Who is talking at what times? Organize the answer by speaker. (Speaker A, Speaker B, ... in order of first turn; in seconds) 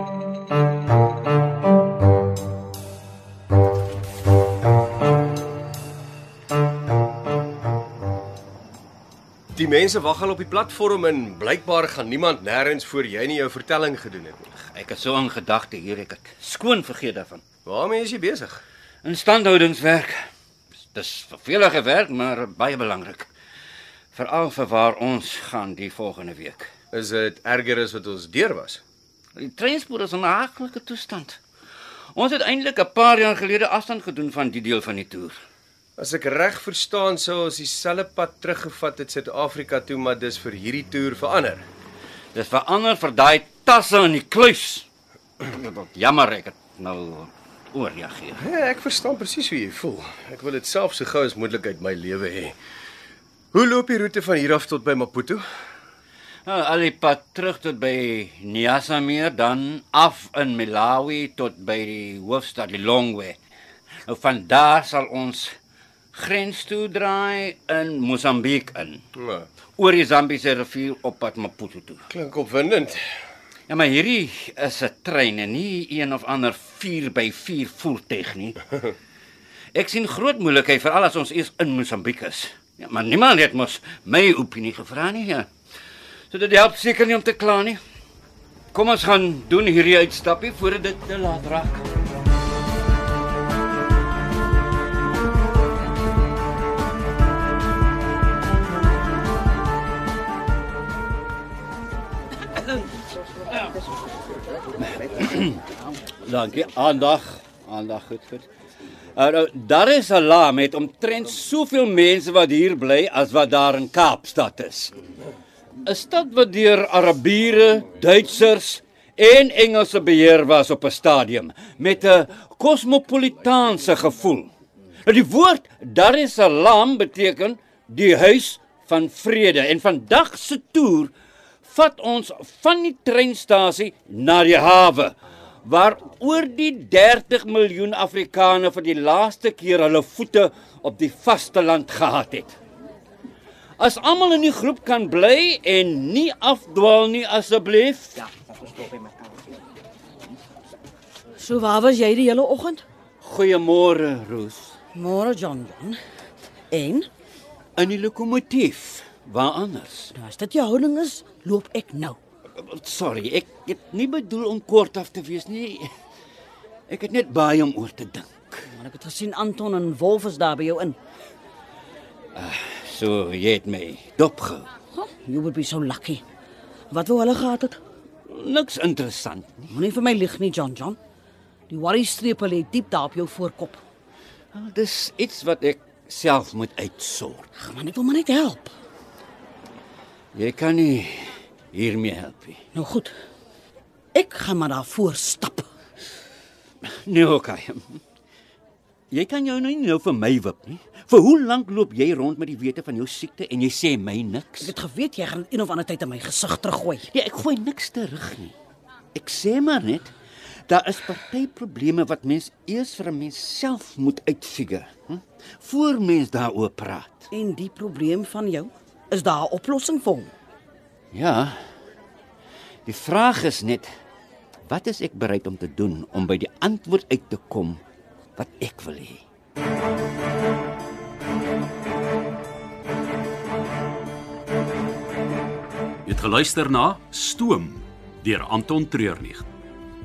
Speaker A: 9.5-14.5, 17.6-18.6, 26.9-28.8, 36.0-41.6, 48.4-52.5, 53.5-55.4, 69.2-69.5, 72.1-73.0
Speaker B: 14.7-17.4, 19.0-20.1, 20.9-23.3, 24.1-26.7, 29.4-31.4, 32.1-35.4, 42.3-44.9, 45.4-48.4, 56.5-63.4, 64.0-65.5, 66.1-69.0, 69.8-72.0, 73.7-78.7, 79.7-85.5, 86.3-87.8, 88.7-91.8, 104.8-105.6, 106.2-108.5, 109.1-114.9, 115.8-124.5, 125.0-131.1, 131.6-142.6, 143.8-148.3, 153.2-154.7, 157.8-160.1, 162.6-165.9, 166.9-168.7, 172.3-174.7, 178.3-179.7, 184.5-187.5, 190.3-192.6, 196.8-198.0, 199.1-204.7, 207.1-208.5, 209.1-210.1, 210.7-217.3, 221.1-221.6, 222.8-223.9, 224.7-227.8, 228.3-229.2
Speaker C: 151.4-152.8, 154.9-156.0, 156.7-157.1, 160.1-162.2, 168.7-170.9, 175.0-176.2, 176.9-177.8, 179.7-181.0, 181.7-183.8, 187.6-188.7, 192.7-193.1, 194.1-195.7, 204.6-207.1, 217.3-220.3
Speaker D: 236.0-239.5